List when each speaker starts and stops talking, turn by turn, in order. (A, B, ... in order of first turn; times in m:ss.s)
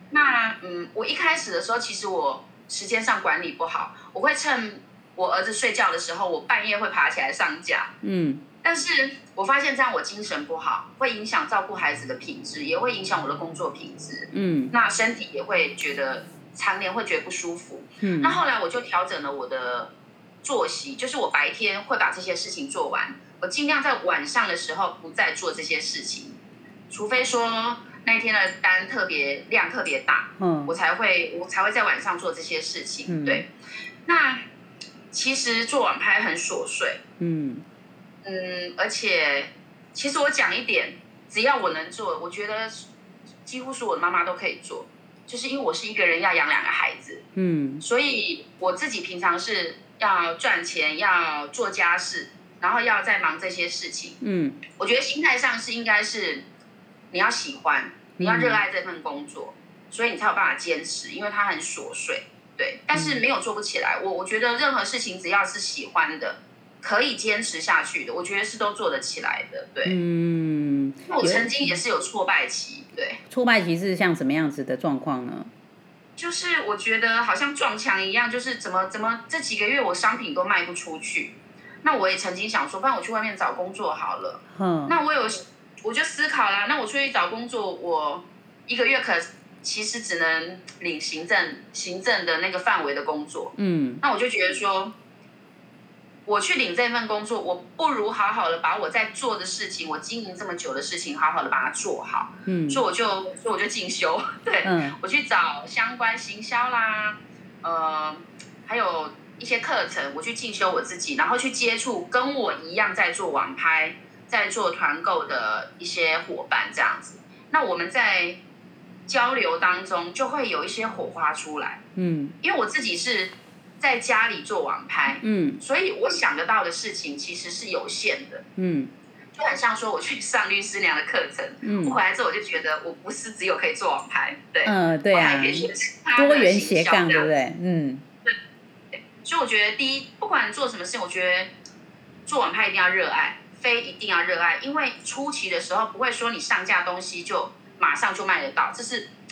0:00.1-0:07.9 A
0:08.0-0:08.4 B
0:08.6-0:19.9 A
0:14.3-0:14.7 B
0:18.0-0:18.4 B
0:20.4-0:26.4 A
0:26.9-0:33.5 A
0:30.4-0:30.8 B
0:33.1-0:33.4 B
0:34.0-0:34.4 A
0:35.1-0:37.0 A
0:37.2-0:37.6 B
0:38.2-0:42.9 A
0:43.4-0:47.2 A
0:47.4-0:47.8 B
0:47.8-0:54.2 A
0:54.2-0:54.6 B
0:54.7-0:56.4 A
0:57.1-1:10.0 A
0:58.2-0:58.6 B
1:02.9-1:03.2 B
1:09.8-1:11.8 B
1:11.1-1:13.2 A
1:13.3-1:15.5 B
1:16.2-1:34.9 A
1:24.5-1:25.0 B
1:33.6-1:34.0 B
1:36.2-1:58.4 A
1:42.4-1:42.8 B
1:44.6-1:45.0 B
1:59.1-2:01.8 A
2:02.0-2:02.3 B
2:02.4-2:08.4 A
2:05.2-2:05.6 B
2:08.6-2:08.9 B
2:09.4-2:17.3 A
2:11.6-2:12.0 B
2:14.6-2:18.0 B
2:19.2-2:21.5 A
2:22.2-2:29.1 A